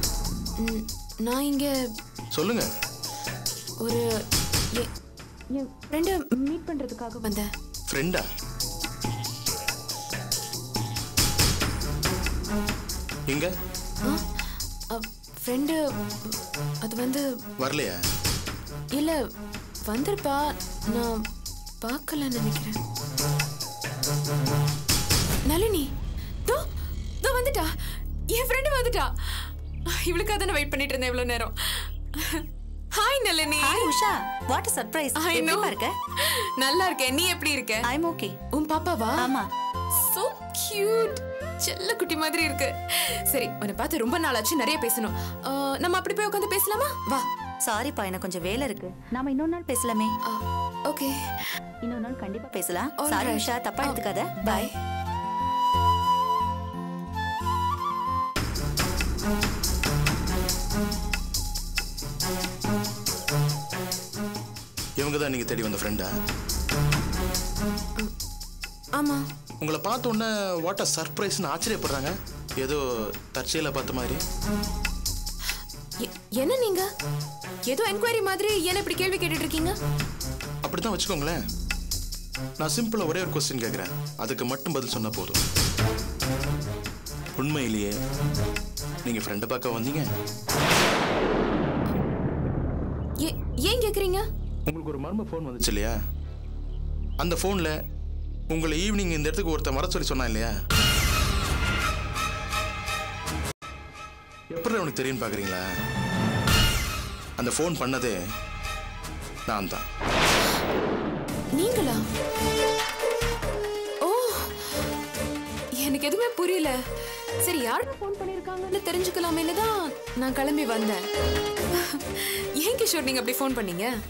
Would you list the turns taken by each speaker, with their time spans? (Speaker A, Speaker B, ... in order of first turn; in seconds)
Speaker A: 0.6-1.7, 5.7-7.5, 14.9-17.2, 19.9-21.2, 21.8-22.8, 25.4-25.9, 27.2-27.7, 28.3-32.4, 33.0-33.9, 35.2-35.8, 36.6-37.8, 38.5-39.3, 40.0-47.2, 50.3-51.1, 53.0-54.7, 69.0-69.2, 76.0-76.9, 77.7-79.7, 93.2-94.2, 111.5-112.0, 114.0-114.5, 115.8-116.8, 117.4-121.0, 121.8-123.9
Speaker B: 2.3-2.7, 7.9-8.2, 17.6-18.0, 65.0-66.1, 69.6-74.2, 80.6-81.4, 82.6-85.4, 87.4-87.9, 89.0-90.1, 94.7-95.9, 97.2-97.7, 98.5-100.5, 104.5-105.6, 107.4-108.2, 109.5-109.8
Speaker C: 33.6-36.0, 37.8-38.4, 39.2-39.5, 47.6-50.1, 51.8-54.7